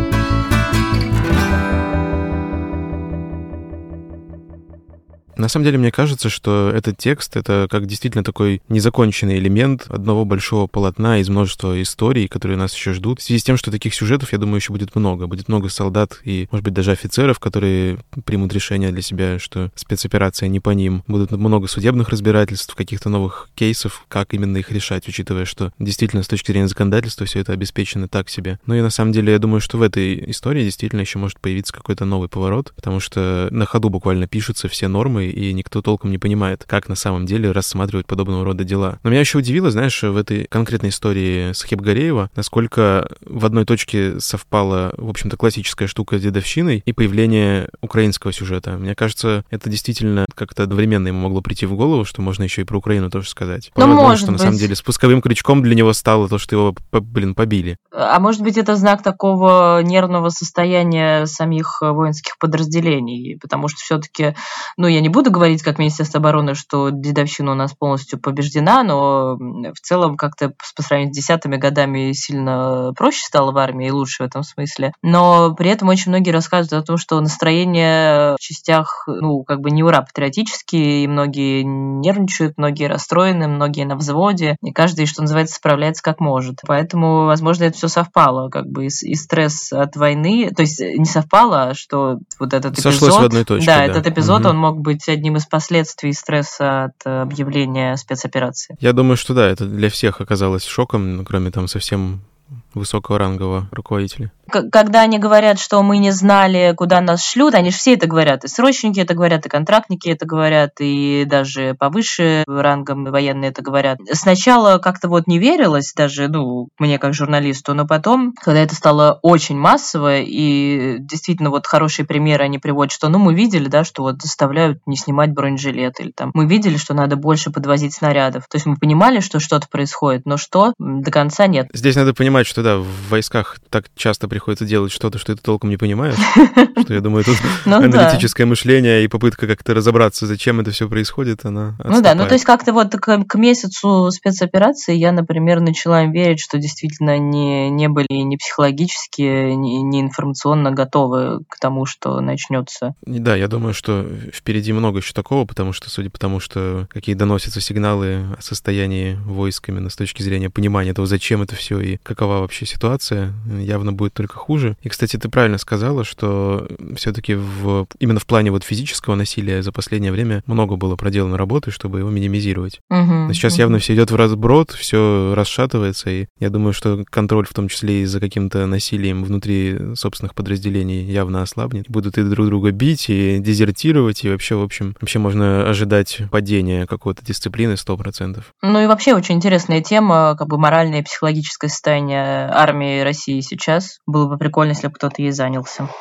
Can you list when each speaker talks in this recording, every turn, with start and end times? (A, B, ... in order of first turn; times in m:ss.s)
0:05.4-0:57.8 A
0:53.8-0:54.7 B
0:57.9-1:38.7 B
1:32.7-1:34.5 A
1:38.8-1:44.3 A
1:44.5-2:11.7 B
2:11.7-2:22.4 A
2:16.4-2:16.8 B
2:17.6-2:18.3 B
2:21.9-2:32.9 B
2:33.0-3:08.5 A
2:52.9-2:53.7 B
3:08.6-3:15.9 B